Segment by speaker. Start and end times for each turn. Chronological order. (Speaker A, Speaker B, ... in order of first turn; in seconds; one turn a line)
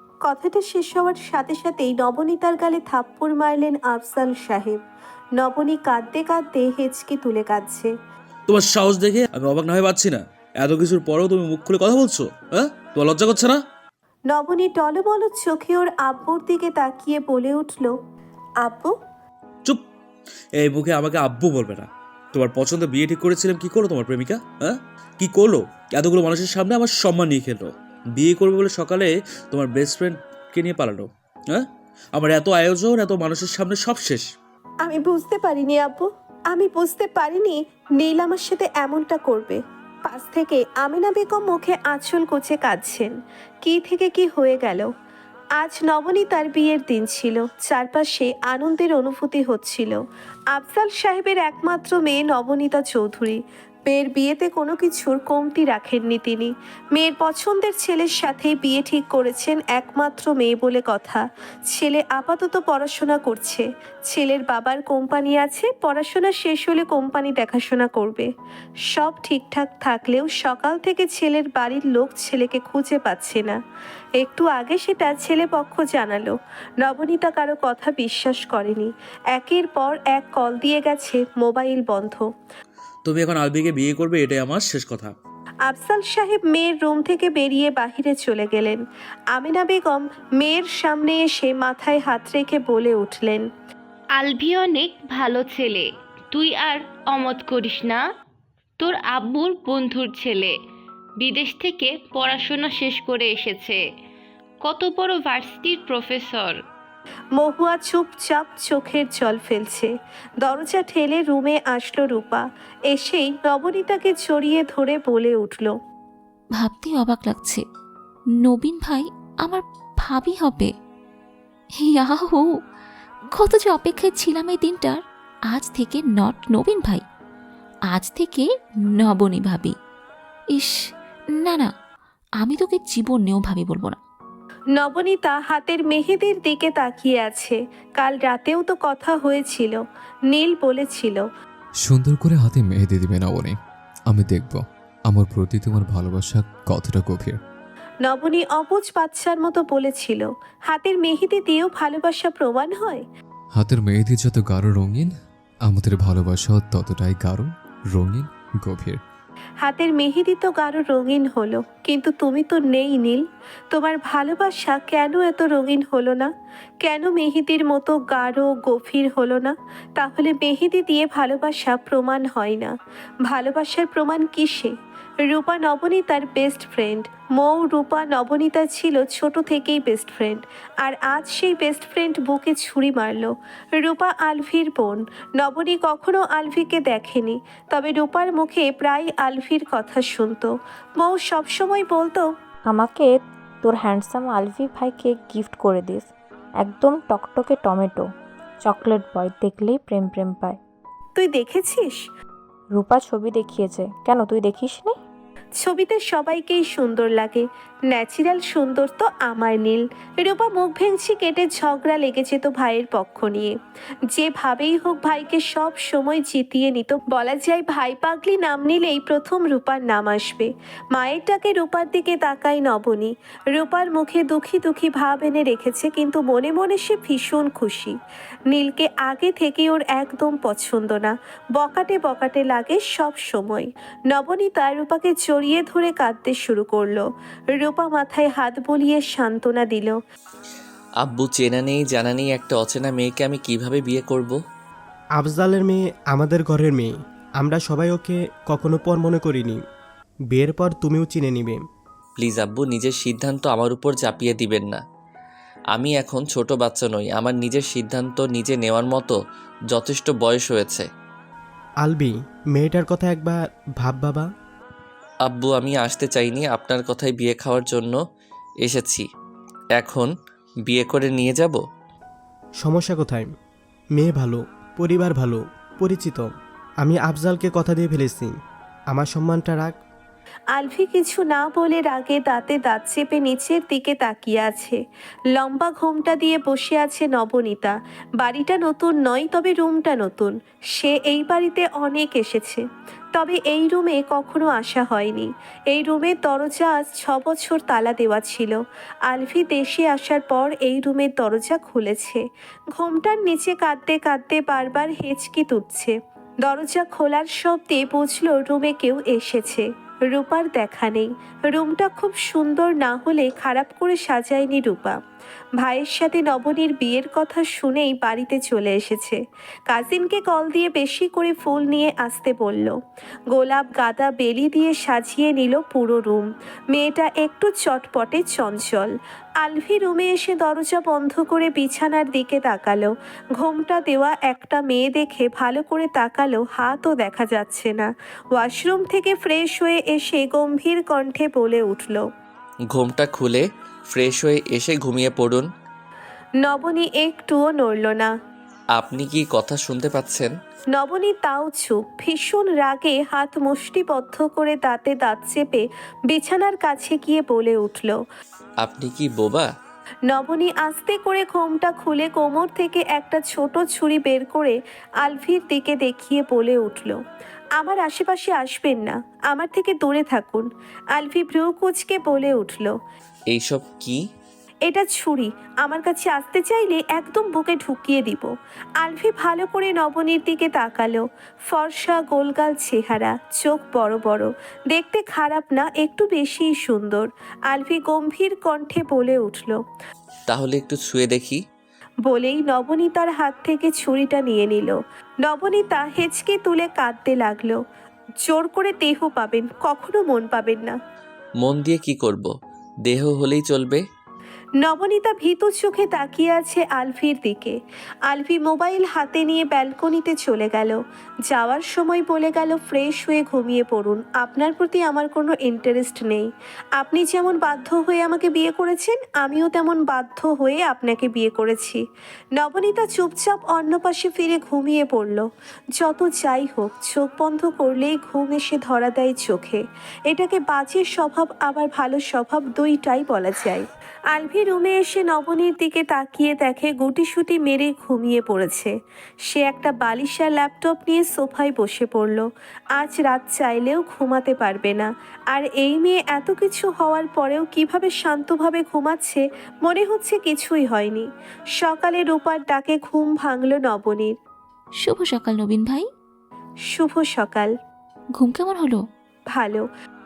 Speaker A: 0.2-4.8
Speaker A: 5.4-7.9
Speaker B: 8.5-13.6
Speaker A: 14.3-17.9
Speaker A: 18.6-18.9
Speaker B: 20.6-34.2
Speaker A: 34.8-43.1
Speaker A: 43.6-44.9
Speaker A: 45.6-50.0
Speaker A: 50.5-68.3
Speaker A: 68.9-73.6
Speaker A: 74.2-82.2
Speaker B: 83.0-85.1
Speaker A: 85.7-88.8
Speaker A: 89.3-93.5
Speaker C: 94.1-98.0
Speaker C: 98.8-100.5
Speaker C: 101.2-103.8
Speaker C: 104.6-106.6
Speaker A: 107.3-109.9
Speaker A: 110.4-115.8
Speaker D: 116.5-117.6
Speaker D: 118.4-120.7
Speaker D: 121.8-122.6
Speaker D: 123.3-127.0
Speaker D: 127.9-128.5
Speaker D: 129.0-129.7
Speaker D: 131.4-131.7
Speaker D: 132.4-134.0
Speaker A: 134.8-141.2
Speaker E: 141.8-143.5
Speaker E: 144.1-147.4
Speaker A: 148.0-153.0
Speaker E: 153.6-155.1
Speaker E: 155.7-159.0
Speaker A: 159.6-166.3
Speaker A: 166.8-172.7
Speaker A: 173.2-192.2
Speaker F: 192.7-198.1
Speaker F: 198.6-200.6
Speaker A: 201.2-202.1
Speaker F: 202.7-204.9
Speaker A: 205.6-213.5
Speaker A: 214.1-227.9
Speaker A: 228.5-240.0
Speaker G: 241.0-244.3
Speaker H: 245.2-249.6
Speaker H: 250.3-251.6
Speaker G: 252.2-254.8
Speaker G: 255.7-259.1
Speaker G: 259.7-260.9
Speaker H: 261.8-264.2
Speaker G: 265.2-268.0
Speaker G: 268.6-269.0
Speaker G: 269.7-270.1
Speaker G: 270.6-271.6
Speaker H: 272.6-273.3
Speaker H: 273.9-276.2
Speaker H: 276.8-278.3
Speaker H: 278.9-279.8
Speaker A: 280.5-284.8
Speaker A: 285.3-302.2
Speaker A: 302.8-315.0
Speaker A: 315.6-322.8
Speaker A: 323.3-342.1
Speaker G: 342.7-345.4
Speaker A: 346.4-348.1
Speaker G: 348.8-350.3
Speaker A: 350.7-358.0
Speaker G: 358.6-359.4
Speaker A: 360.1-367.0
Speaker A: 367.6-372.7
Speaker G: 373.3-374.0
Speaker A: 374.6-389.6
Speaker G: 390.3-391.4
Speaker A: 392.1-397.6
Speaker A: 398.2-400.8
Speaker G: 401.4-402.3
Speaker G: 402.9-403.8
Speaker A: 404.6-407.6
Speaker A: 408.1-421.8
Speaker A: 422.4-438.7
Speaker A: 439.2-454.1
Speaker D: 454.8-455.8
Speaker A: 456.7-457.5
Speaker D: 458.2-458.8
Speaker A: 459.3-459.7